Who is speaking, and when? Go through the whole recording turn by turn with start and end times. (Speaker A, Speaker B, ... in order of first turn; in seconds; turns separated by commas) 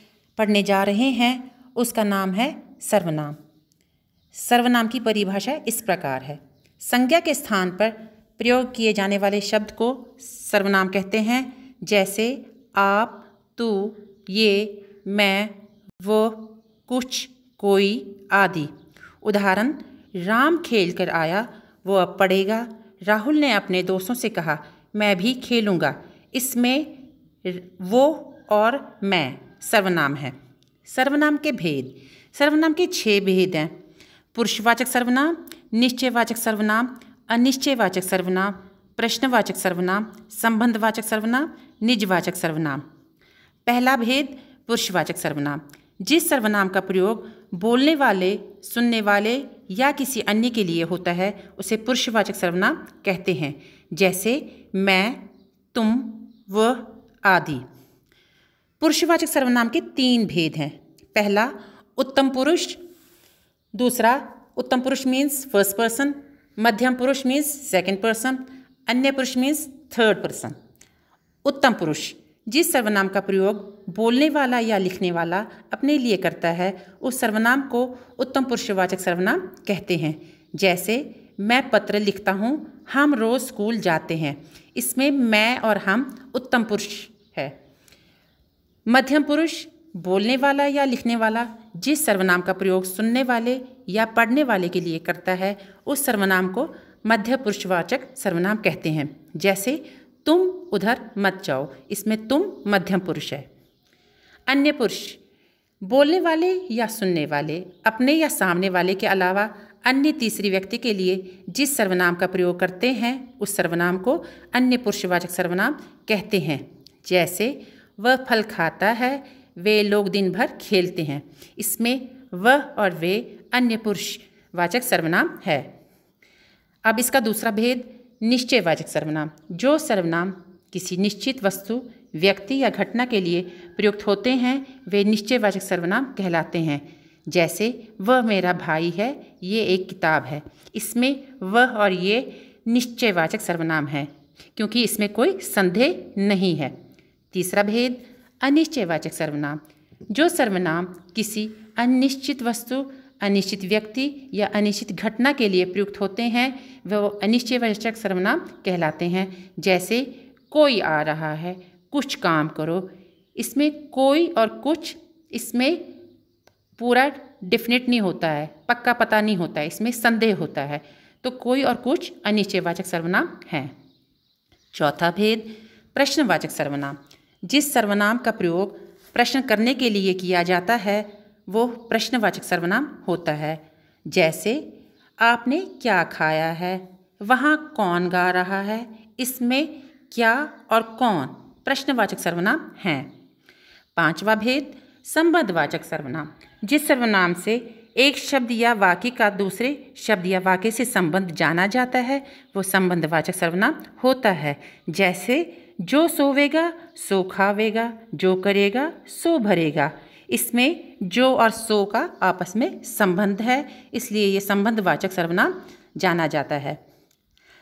Speaker A: 0.4-3.4, Speaker A: 4.3-33.7, Speaker A: 34.3-42.8, Speaker A: 43.7-55.2, Speaker A: 55.7-57.6, Speaker A: 58.8-62.8, Speaker A: 63.7-70.6, Speaker A: 71.4-87.5, Speaker A: 88.9-103.5, Speaker A: 104.5-105.2, Speaker A: 105.8-125.7, Speaker A: 126.8-146.8, Speaker A: 147.3-165.9, Speaker A: 166.8-173.7, Speaker A: 174.7-184.7, Speaker A: 185.2-193.1, Speaker A: 194.0-216.8